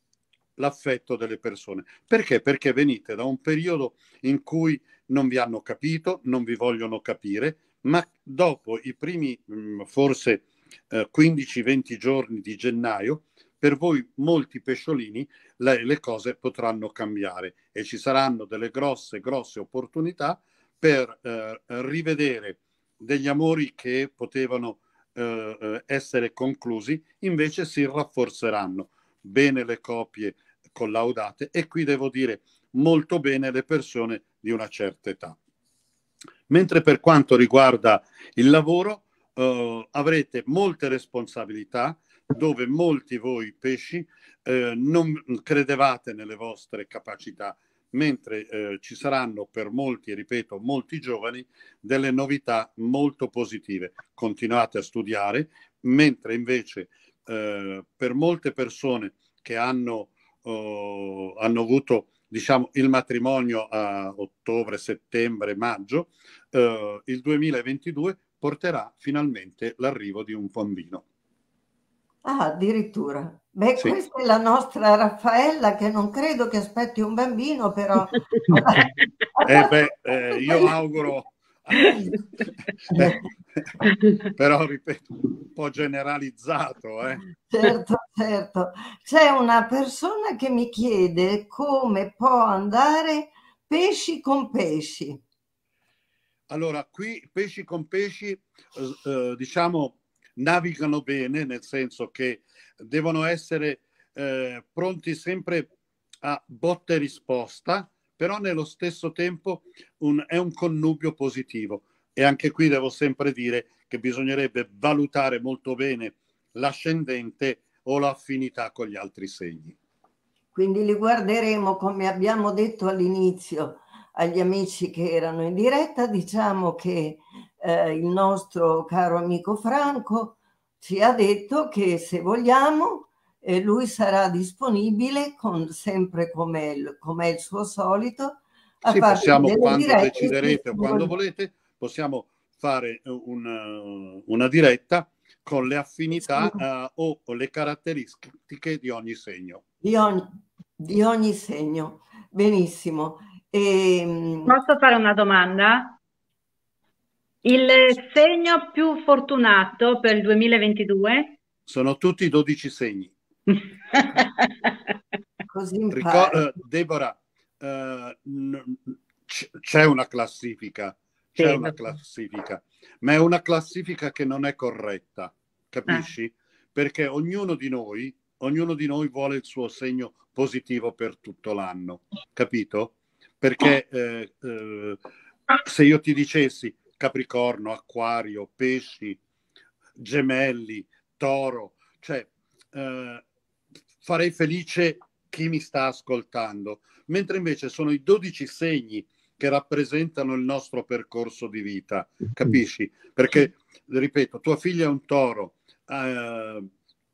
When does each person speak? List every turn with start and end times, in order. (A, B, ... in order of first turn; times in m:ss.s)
0:00.6-0:35.4 A
0:36.5-1:11.0 A
1:12.2-1:18.8 B
1:19.4-1:19.8 B
1:19.4-1:22.2 A
1:20.3-1:20.7 B
1:22.9-1:23.2 B
1:22.9-1:23.7 A
1:24.3-1:27.2 A
1:27.5-1:35.2 B
1:36.5-1:45.7 A
1:46.2-1:59.7 A
2:00.5-2:21.1 B
2:18.8-2:29.6 A
2:29.8-2:34.6 B
2:34.5-2:36.0 C
2:37.4-2:41.4 C
2:41.6-2:43.1 A
2:44.0-2:44.3 C
2:45.5-2:46.4 B
2:45.9-3:05.0 A
2:51.4-2:51.7 C
3:05.6-3:09.2 A
3:10.0-3:13.2 A
3:14.0-3:26.7 A